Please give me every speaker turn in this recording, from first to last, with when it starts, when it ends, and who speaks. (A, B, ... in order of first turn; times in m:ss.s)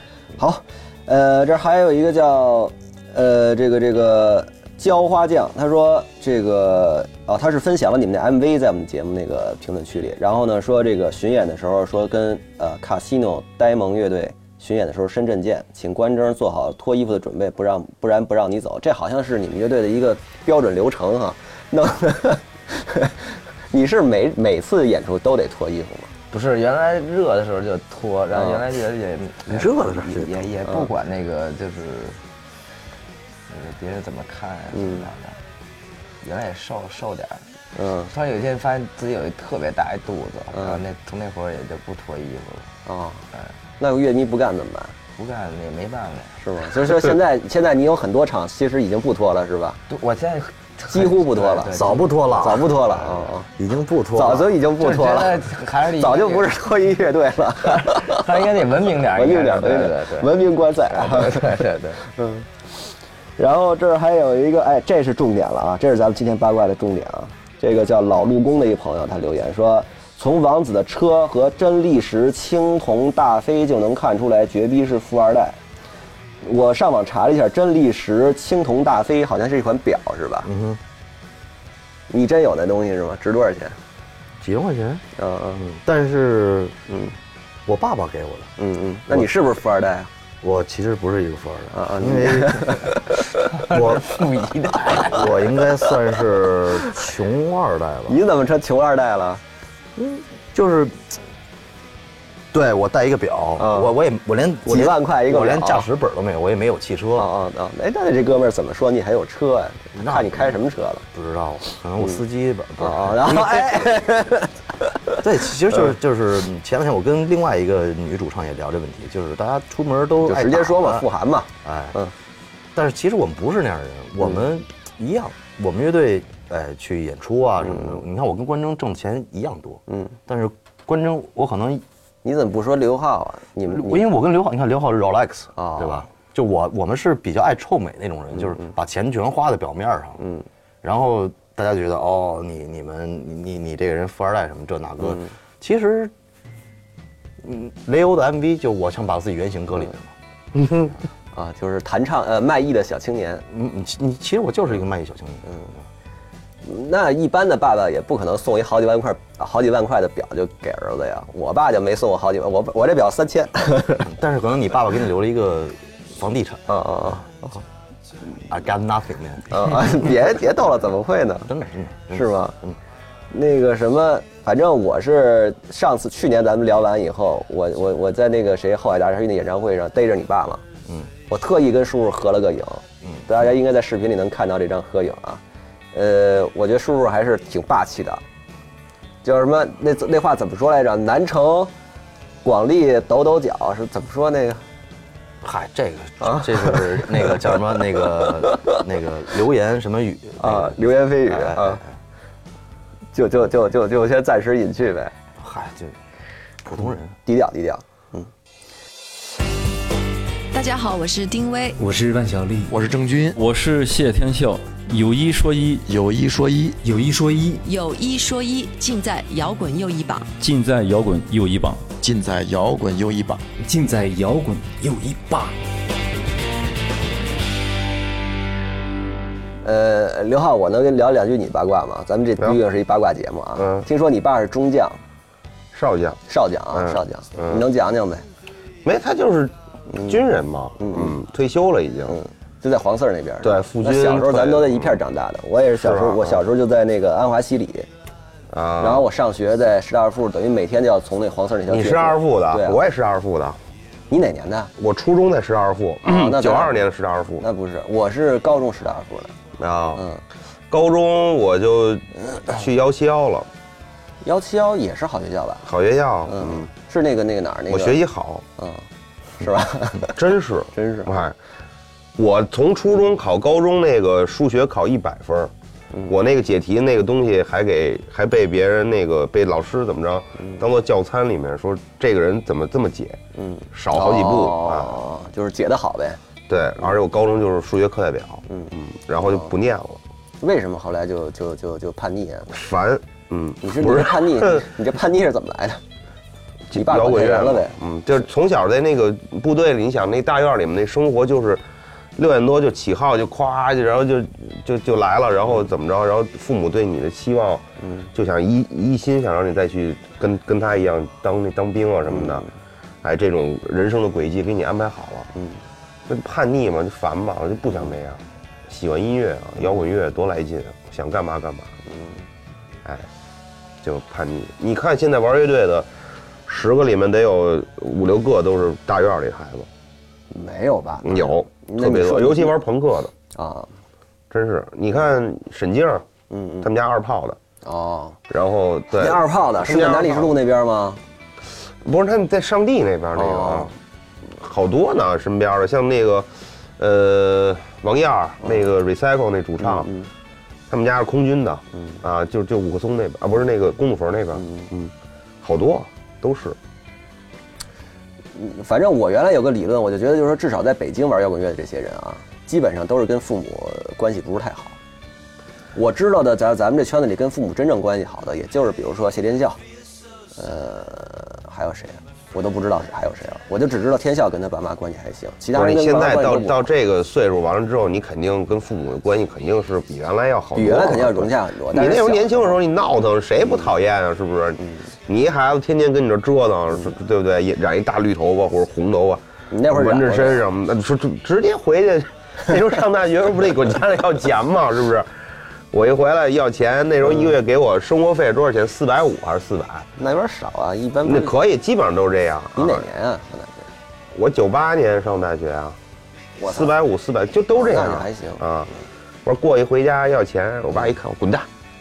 0:00.4-0:26.1 A
0:26.3-0:32.2 B
0:28.3-0:28.6 A
0:29.4-0:30.5 C
0:33.5-0:35.4 B
0:34.7-0:35.1 A
0:36.2-0:37.4 B
0:37.8-0:38.1 A
0:38.1-0:42.7 B
0:40.5-0:40.8 A
0:42.8-0:43.2 A
0:43.8-0:45.0 A
0:45.2-0:46.4 B
0:46.4-0:49.8 A
0:49.9-0:53.3 B
0:50.9-0:53.5 A
0:51.7-0:52.7 C
0:53.6-0:54.6 C
0:54.1-0:58.3 A
0:54.7-0:56.6 B
0:57.7-1:00.4 B
0:59.1-1:02.5 A
1:00.9-1:02.0 B
1:03.4-1:15.6 A
1:16.4-1:20.5 A
1:20.4-1:20.8 C
1:22.1-1:23.8 A
1:24.4-1:25.0 C
1:25.2-1:25.6 A
1:25.6-1:26.8 C
1:26.9-1:27.1 A
1:27.6-1:28.5 C
1:28.6-1:30.1 A
1:30.4-1:32.9 C
1:31.7-1:33.2 A
1:33.5-1:35.4 B
1:33.7-1:34.2 C
1:34.9-1:38.2 C
1:38.1-1:39.4 A
1:40.0-1:41.2 C
1:42.5-1:47.3 C
1:43.6-1:43.9 A
1:44.6-1:45.8 A
1:47.2-1:51.0 A
1:50.0-1:50.6 C
1:51.1-1:53.9 C
1:52.8-1:55.2 A
1:55.2-2:01.1 C
2:00.2-2:02.1 A
2:01.6-2:02.0 C
2:02.7-2:11.8 C
2:07.6-2:08.0 A
2:09.9-2:10.1 A
2:12.2-2:14.1 A
2:13.7-2:20.2 C
2:15.6-2:16.1 A
2:20.2-2:20.4 A
2:20.8-2:26.1 C
2:27.4-2:30.1 C
2:31.3-2:33.4 A
2:33.5-2:35.6 C
2:36.6-2:44.1 A
2:44.0-2:47.6 C
2:46.7-2:47.3 A
2:48.5-2:49.8 C
2:49.5-2:51.5 A
2:51.4-2:52.8 C
2:52.1-2:52.6 A
2:53.3-3:00.6 A
3:01.3-3:05.4 A
3:05.9-3:08.2 A
3:09.2-3:11.7 A
3:12.4-3:14.6 A
3:15.4-3:21.8 C
3:16.2-3:17.6 A
3:18.1-3:18.8 A
3:20.4-3:21.8 A
3:23.1-3:25.1 A
3:25.4-3:26.0 C
3:26.6-3:27.2 C
3:27.2-3:28.3 A
3:30.5-3:31.8 D
3:31.8-3:32.7 E
3:32.7-3:33.4 F
3:33.4-3:35.8 G
3:35.8-3:36.8 F
3:36.8-3:37.6 E
3:37.6-3:40.3 D
3:40.4-3:41.8 G
3:42.0-3:43.5 F
3:43.6-3:45.5 E
3:49.6-3:55.0 A
3:53.6-3:53.8 H
3:55.7-3:56.2 H
3:56.3-3:58.2 A
3:56.7-3:57.6 H
3:58.8-3:59.5 H
3:59.9-4:00.2 A
4:00.0-4:02.2 H
4:00.8-4:01.2 A
4:02.1-4:07.9 A
4:03.4-4:05.0 H
4:05.8-4:06.4 H
4:08.5-4:09.1 H
4:08.8-4:12.8 A
4:11.7-4:13.6 H
4:14.1-4:14.7 A
4:14.8-4:17.4 H
4:16.0-4:16.8 A
4:17.4-4:19.3 A
4:19.6-4:20.0 H
4:20.0-4:20.2 A
4:20.7-4:23.5 H
4:24.2-4:25.6 A
4:25.6-4:26.7 H
4:26.3-4:28.0 A
4:27.7-4:28.4 H
4:28.6-4:28.8 A
4:29.4-4:30.1 A
4:30.1-4:31.3 H
4:30.7-4:31.1 A
4:32.2-4:35.5 H
4:36.1-4:43.2 H
4:43.4-4:46.2 A
4:43.7-4:45.0 H
4:46.5-4:50.0 H
4:48.5-4:48.7 A
4:49.2-4:49.5 A
4:50.4-4:52.6 A
4:52.5-4:54.7 H
4:53.6-4:55.8 A
4:56.7-5:01.6 H
4:56.7-4:57.7 A
5:02.2-5:12.4 H
5:07.8-5:08.1 A
5:12.1-5:12.4 A
5:13.0-5:15.3 H
5:15.3-5:15.6 A
5:16.1-5:21.7 H
5:21.9-5:22.2 A
5:23.8-5:25.9 H
5:26.5-5:29.7 H
5:30.3-5:32.5 A
5:31.0-5:33.1 H
5:33.3-5:33.7 A
5:34.3-5:36.0 H
5:36.3-5:36.7 A
5:36.6-5:37.4 H
5:37.6-5:38.2 A
5:38.3-5:40.3 H
5:38.9-5:41.0 A
5:41.8-5:43.7 H
5:43.1-5:43.7 A
5:44.3-5:49.9 H
5:49.6-5:50.1 A
5:50.7-5:56.6 H
5:54.4-5:54.7 A
5:58.3-6:04.8 A
6:05.7-6:09.6 A
6:10.3-6:16.7 A
6:15.5-6:35.1 H
6:20.6-6:22.6 A
6:29.5-6:30.4 A
6:35.7-6:39.9 H
6:40.0-6:41.4 A
6:41.0-6:42.8 H
6:42.6-6:43.7 A
6:44.1-6:45.8 H
6:46.4-6:46.7 A
6:46.5-6:48.7 H
6:47.5-6:48.4 A
6:49.2-6:51.5 H